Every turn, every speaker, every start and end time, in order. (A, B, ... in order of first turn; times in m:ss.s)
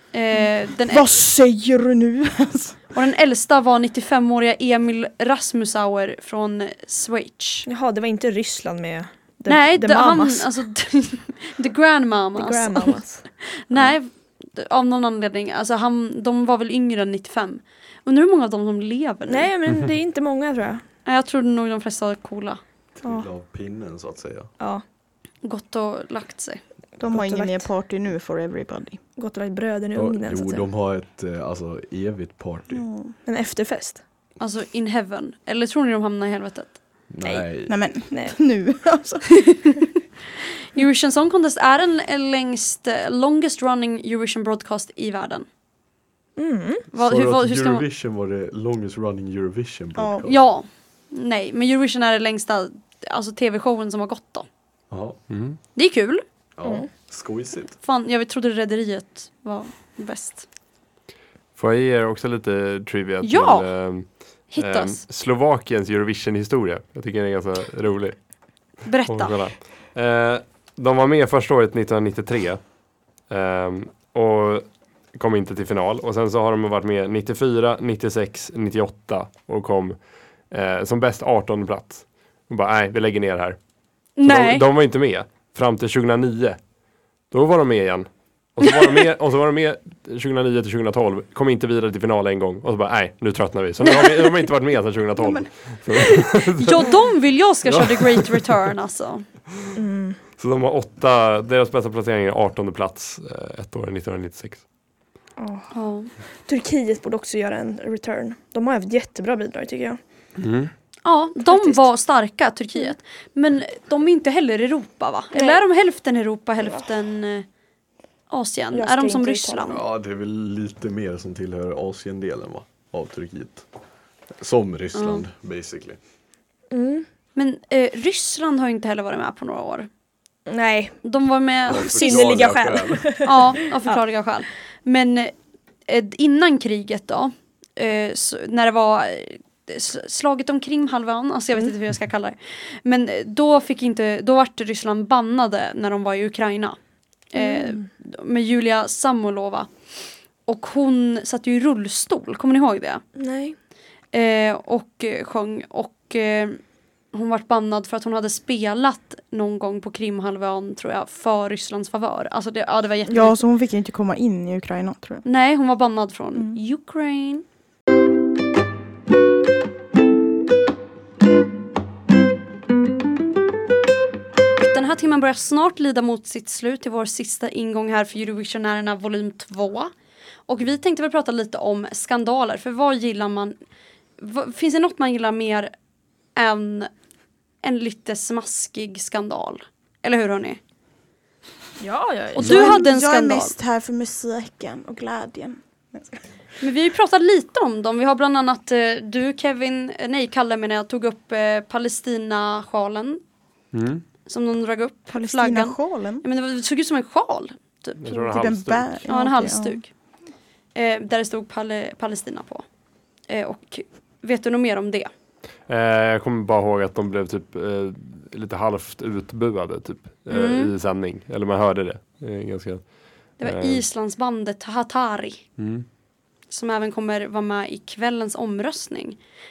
0:00.1-0:01.1 A
0:00.4-0:02.8 B
0:02.9-0:07.6 A
0:07.6-0:10.5 C
0:09.5-0:19.5 A
0:12.4-0:13.2 C
0:19.3-0:20.8 C
0:21.0-0:22.6 A
0:23.0-0:24.5 D
0:25.4-0:26.6 A
0:27.0-0:29.0 B
0:27.0-0:27.7 C
0:29.2-0:30.7 C
0:29.9-0:32.8 D
0:32.7-0:33.1 B
0:33.2-0:34.0 C
0:34.4-0:36.8 A
0:37.1-0:37.7 D
0:37.2-0:37.5 C
0:37.7-0:39.4 B
0:38.1-0:38.4 C
0:39.5-0:39.8 A
0:40.7-0:45.5 A
0:46.4-0:46.8 C
0:46.9-0:47.8 A
0:47.0-0:50.4 D
0:50.0-0:50.3 B
0:50.3-0:54.4 A
0:54.9-0:55.2 D
0:55.3-0:55.6 E
0:55.8-0:56.2 A
0:56.6-0:57.8 D
0:56.6-0:56.9 C
0:57.8-1:00.4 A
1:01.6-1:08.2 E
1:03.2-1:03.7 A
1:04.5-1:05.0 A
1:08.8-1:09.4 A
1:09.1-1:12.6 E
1:13.3-1:20.0 E
1:20.5-1:23.6 E
1:24.2-1:24.6 A
1:24.2-1:26.6 E
1:27.3-1:37.0 E
1:33.9-1:34.3 A
1:35.2-1:35.5 B
1:35.9-1:39.2 A
1:37.7-1:38.4 E
1:39.7-1:40.2 C
1:40.4-1:44.6 E
1:45.4-1:45.7 C
1:45.7-1:46.1 A
1:46.4-1:50.0 C
1:50.4-1:50.7 E
1:51.0-1:57.4 A
1:51.5-1:51.8 C
1:55.3-1:55.6 C
1:58.3-1:59.8 A
1:58.7-1:59.7 C
1:59.7-2:03.6 D
2:04.4-2:06.0 D
2:05.0-2:05.2 A
2:06.7-2:07.0 C
2:07.4-2:09.9 A
2:10.5-2:11.0 C
2:11.0-2:12.6 A
2:11.7-2:13.3 D
2:11.7-2:14.0 C
2:13.2-2:15.3 A
2:15.9-2:26.8 A
2:27.3-2:29.7 A
2:27.4-2:27.9 C
2:30.4-2:33.0 A
2:33.2-2:33.6 C
2:34.1-2:36.6 A
2:37.1-2:43.4 A
2:43.1-2:45.2 B
2:45.2-2:47.4 A
2:54.6-2:59.9 A
3:00.5-3:03.5 A
3:04.2-3:05.7 A
3:06.4-3:06.9 A
3:07.6-3:10.6 A
3:11.8-3:12.8 C
3:12.4-3:13.5 A
3:12.4-3:16.0 B
3:16.6-3:23.2 A
3:23.7-3:24.0 E
3:24.2-3:28.0 A
3:25.1-3:26.2 B
3:28.0-3:28.9 E
3:28.1-3:29.8 B
3:29.1-3:29.9 A
3:30.7-3:32.6 A
3:33.3-3:35.1 A
3:35.7-3:42.8 E
3:40.3-3:40.7 A
3:43.4-3:43.8 E
3:43.4-3:45.4 A
3:45.6-3:45.8 E
3:46.5-3:49.2 A